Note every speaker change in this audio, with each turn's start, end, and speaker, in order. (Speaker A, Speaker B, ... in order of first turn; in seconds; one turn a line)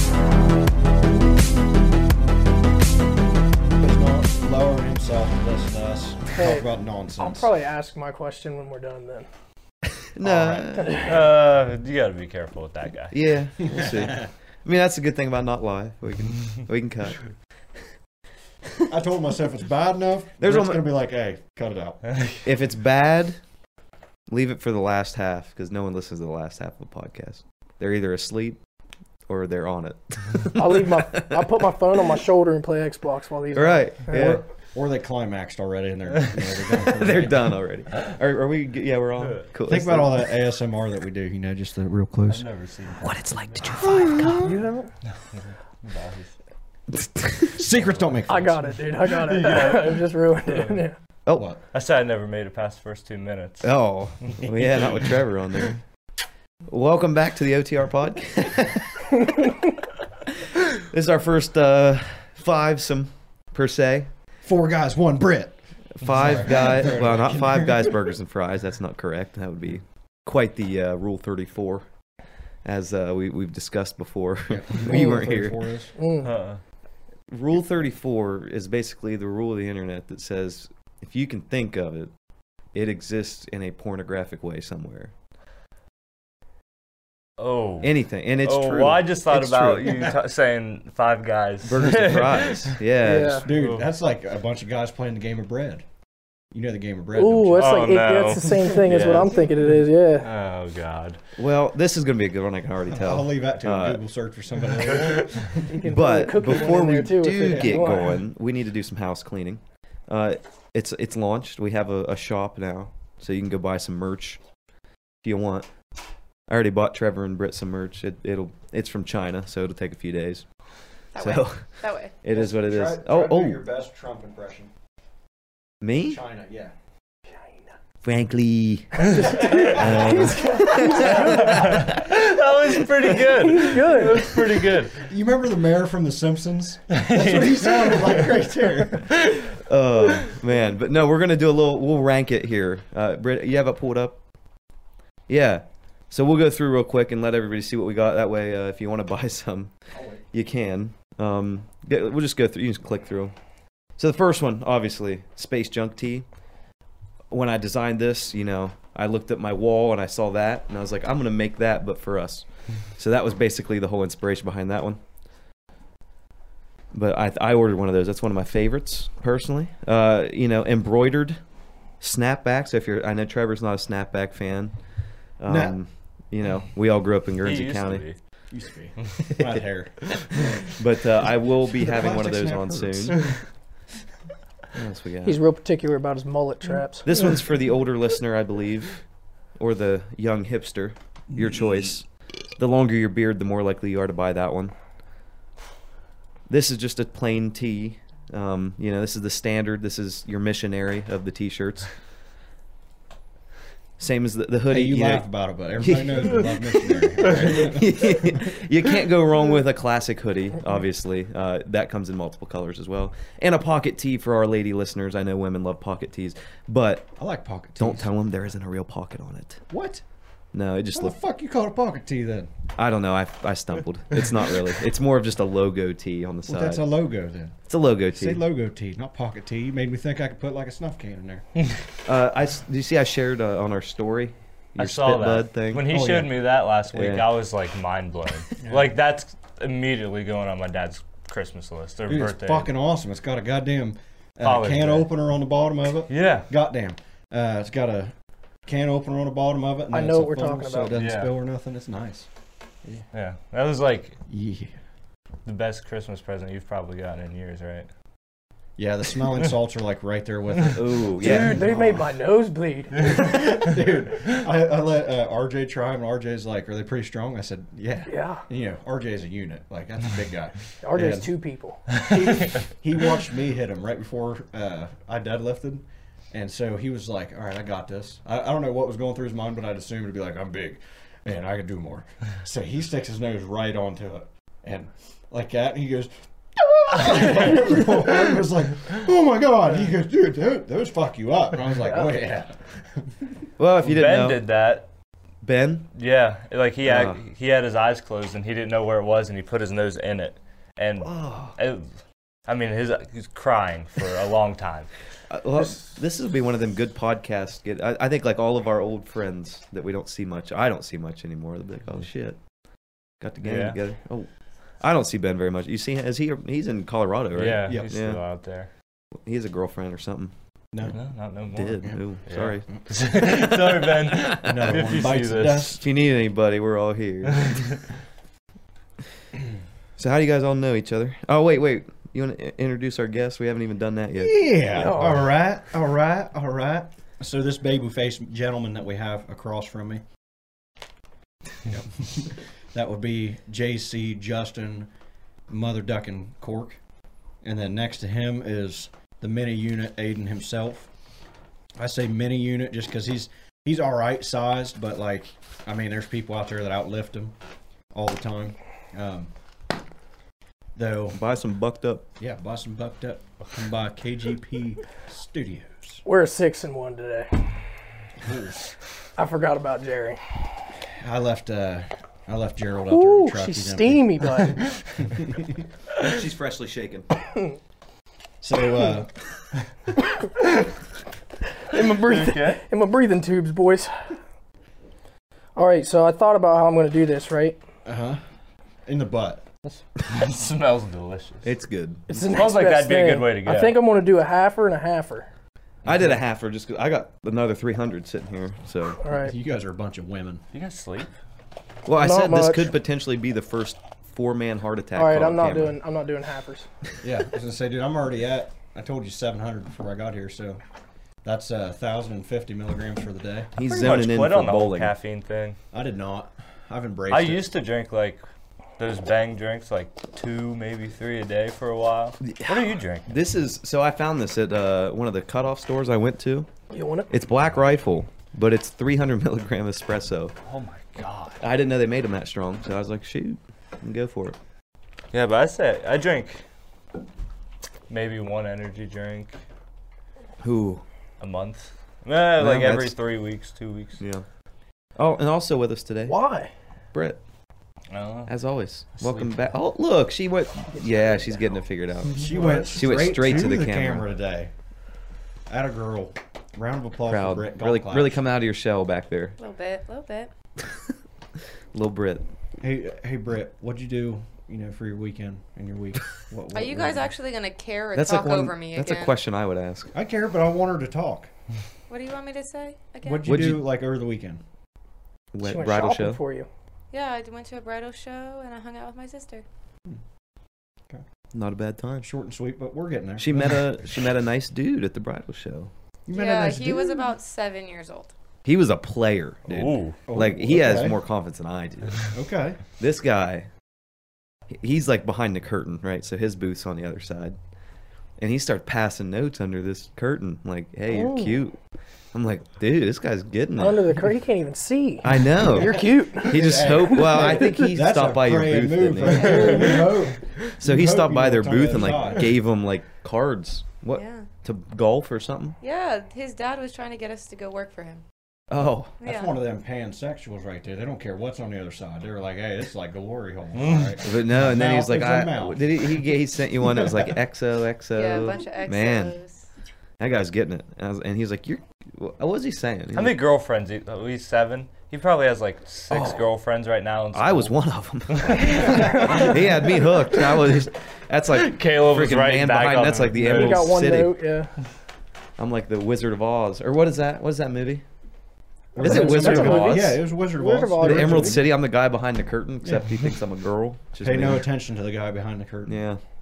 Speaker A: 3.8-7.5
Speaker B: 6.3-6.7
Speaker B: 7.2-9.3
Speaker C: 10.1-11.1
Speaker A: 10.2-10.9
Speaker B: 10.8-11.1
Speaker D: 11.0-13.1
Speaker C: 13.1-17.2
Speaker A: 13.6-14.3
Speaker A: 18.9-22.0
Speaker C: 20.4-20.8
Speaker D: 22.1-22.4
Speaker C: 22.4-23.4
Speaker C: 24.3-28.6
Speaker C: 29.3-31.5
Speaker B: 30.5-34.2
Speaker C: 33.5-34.4
Speaker A: 34.1-37.6
Speaker C: 36.7-40.2
Speaker A: 39.6-42.4
Speaker D: 42.3-43.8
Speaker C: 43.0-44.5
Speaker B: 43.8-44.9
Speaker D: 45.2-46.3
Speaker C: 46.9-47.6
Speaker A: 47.5-48.7
Speaker B: 48.3-51.0
Speaker D: 49.0-50.8
Speaker A: 51.3-51.6
Speaker D: 51.7-53.7
Speaker C: 53.6-55.8
Speaker A: 54.4-55.2
Speaker C: 56.7-59.2
Speaker C: 60.7-64.1
Speaker A: 64.4-68.0
Speaker C: 65.9-71.8
Speaker C: 72.6-75.6
Speaker A: 74.5-75.9
Speaker B: 76.0-76.3
Speaker D: 76.2-76.6
Speaker C: 77.3-82.1
Speaker C: 82.7-85.1
Speaker D: 87.4-92.8
Speaker C: 87.8-90.1
Speaker A: 89.8-90.2
Speaker C: 91.6-93.5
Speaker B: 93.0-93.5
Speaker A: 93.2-95.8
Speaker D: 93.5-93.9
Speaker A: 96.5-97.9
Speaker B: 97.2-100.3
Speaker D: 97.6-99.5
Speaker D: 100.2-101.2
Speaker C: 101.4-104.0
Speaker A: 102.9-105.8
Speaker B: 105.7-108.2
Speaker C: 105.8-114.4
Speaker A: 107.4-108.0
Speaker C: 115.2-115.7
Speaker C: 116.5-123.6
Speaker E: 121.1-122.1
Speaker A: 122.3-124.7
Speaker C: 125.8-126.2
Speaker A: 126.0-126.7
Speaker C: 128.0-131.8
Speaker B: 129.0-131.9
Speaker D: 129.2-129.7
Speaker A: 129.4-131.1
Speaker D: 130.8-135.0
Speaker B: 133.3-134.4
Speaker A: 134.9-139.2
Speaker D: 136.9-138.2
Speaker C: 139.3-144.2
Speaker C: 145.3-149.7
Speaker A: 149.9-150.2
Speaker C: 150.3-153.3
Speaker C: 154.0-156.2
Speaker C: 157.3-165.0
Speaker C: 166.9-171.4
Speaker C: 172.0-174.8
Speaker C: 175.4-178.0
Speaker A: 175.4-175.8
Speaker D: 177.4-178.2
Speaker A: 178.5-180.7
Speaker C: 180.7-183.2
Speaker A: 181.7-183.4
Speaker C: 184.7-185.4
Speaker B: 185.2-187.2
Speaker C: 187.0-189.0
Speaker C: 189.5-194.7
Speaker C: 196.5-201.9
Speaker C: 204.0-206.6
Speaker A: 204.7-208.5
Speaker C: 207.2-217.2
Speaker A: 217.2-218.1
Speaker C: 217.8-219.6
Speaker A: 219.7-220.0
Speaker C: 220.5-221.2
Speaker A: 220.9-222.5
Speaker C: 222.8-226.8
Speaker A: 226.4-231.4
Speaker C: 227.7-228.4
Speaker C: 232.0-236.3
Speaker D: 234.8-242.7
Speaker A: 235.9-236.2
Speaker C: 236.9-237.3
Speaker A: 242.1-248.1
Speaker D: 244.4-245.1
Speaker D: 246.1-246.5
Speaker A: 248.7-252.3
Speaker B: 249.9-250.9
Speaker D: 250.9-251.3
Speaker D: 253.1-254.2
Speaker A: 254.3-254.8
Speaker D: 255.4-257.9
Speaker A: 258.8-262.1
Speaker C: 260.7-261.7
Speaker B: 261.2-263.3
Speaker A: 263.0-271.3
Speaker B: 268.1-268.4
Speaker B: 270.8-271.9
Speaker A: 272.0-293.4
Speaker C: 293.6-294.4
Speaker D: 293.8-294.9
Speaker C: 295.4-295.9
Speaker D: 295.9-301.9
Speaker C: 296.8-297.2
Speaker C: 301.1-301.5
Speaker D: 302.5-304.9
Speaker C: 305.3-312.4
Speaker C: 313.2-314.3
Speaker D: 313.4-313.8
Speaker C: 314.8-318.2
Speaker D: 317.3-318.7
Speaker C: 319.2-320.3
Speaker A: 320.7-321.0
Speaker D: 320.9-325.8
Speaker C: 321.5-324.7
Speaker A: 324.4-325.9
Speaker C: 325.8-327.6
Speaker D: 327.4-327.8
Speaker C: 330.0-334.4
Speaker A: 334.2-340.0
Speaker B: 334.8-335.3
Speaker A: 341.6-344.9
Speaker A: 345.5-346.8
Speaker A: 347.4-350.9
Speaker A: 351.8-357.3
Speaker A: 357.9-359.3
Speaker A: 360.7-361.2
Speaker C: 361.1-362.1
Speaker A: 362.2-366.0
Speaker B: 366.0-367.3
Speaker A: 368.2-368.6
Speaker B: 369.2-370.2
Speaker A: 370.9-375.6
Speaker B: 372.9-374.6
Speaker C: 376.0-377.1
Speaker A: 378.4-379.1
Speaker B: 381.7-384.0
Speaker D: 382.1-382.6
Speaker B: 385.6-387.6
Speaker A: 387.8-388.2
Speaker A: 388.9-389.4
Speaker D: 389.6-391.5
Speaker C: 391.4-392.5
Speaker B: 392.1-395.3
Speaker D: 392.2-393.8
Speaker C: 395.8-399.0
Speaker B: 399.0-399.3
Speaker A: 399.1-400.4
Speaker D: 400.5-401.1
Speaker C: 401.8-405.8
Speaker B: 402.0-402.7
Speaker B: 405.0-406.7
Speaker A: 407.0-410.6
Speaker A: 411.2-413.5
Speaker C: 413.6-414.9
Speaker D: 413.6-415.6
Speaker A: 415.7-417.4
Speaker D: 417.1-418.2
Speaker D: 418.8-423.1
Speaker C: 422.2-426.5
Speaker B: 426.7-427.1
Speaker C: 427.1-430.3
Speaker D: 430.4-431.4
Speaker C: 431.4-434.4
Speaker D: 435.1-436.4
Speaker D: 437.9-439.3
Speaker C: 440.4-440.8
Speaker D: 441.2-444.0
Speaker C: 442.4-442.9
Speaker C: 445.0-446.2
Speaker B: 446.1-446.5
Speaker D: 447.9-448.3
Speaker C: 448.3-454.1
Speaker D: 448.9-449.3
Speaker B: 450.8-451.3
Speaker A: 452.1-454.5
Speaker B: 452.4-452.7
Speaker A: 455.5-458.2
Speaker C: 457.1-459.4
Speaker E: 459.4-460.3
Speaker C: 461.7-462.2
Speaker A: 462.6-467.1
Speaker E: 466.5-469.1
Speaker C: 467.9-469.9
Speaker A: 469.9-471.3
Speaker E: 471.9-473.3
Speaker A: 473.0-474.4
Speaker C: 473.2-473.7
Speaker C: 475.3-476.2
Speaker B: 475.4-476.5
Speaker E: 476.9-479.4
Speaker C: 481.3-482.1
Speaker A: 482.0-483.6
Speaker C: 483.2-485.7
Speaker A: 486.1-487.1
Speaker E: 486.1-488.1
Speaker C: 488.4-492.1
Speaker D: 489.5-490.0
Speaker A: 490.1-491.0
Speaker A: 492.1-492.6
Speaker C: 492.8-493.5
Speaker C: 494.5-497.4
Speaker C: 498.2-501.6
Speaker B: 500.9-501.4
Speaker C: 502.1-504.0
Speaker B: 503.6-507.5
Speaker C: 505.0-509.9
Speaker A: 505.6-512.3
Speaker C: 510.4-515.6
Speaker E: 513.9-514.3
Speaker E: 515.6-518.0
Speaker C: 518.5-518.9
Speaker E: 519.0-519.3
Speaker A: 519.0-526.1
Speaker D: 523.5-524.0
Speaker C: 524.0-529.2
Speaker A: 526.7-527.1
Speaker E: 527.9-529.4
Speaker C: 530.0-533.1
Speaker D: 532.9-537.5
Speaker C: 535.9-536.2
Speaker C: 537.1-544.1
Speaker D: 538.1-539.8
Speaker D: 541.3-543.8
Speaker B: 543.2-544.5
Speaker C: 545.4-547.8
Speaker B: 548.7-551.4
Speaker A: 548.7-551.5
Speaker C: 548.8-550.0
Speaker C: 550.8-554.5
Speaker A: 552.6-553.0
Speaker A: 554.0-555.8
Speaker C: 555.7-556.0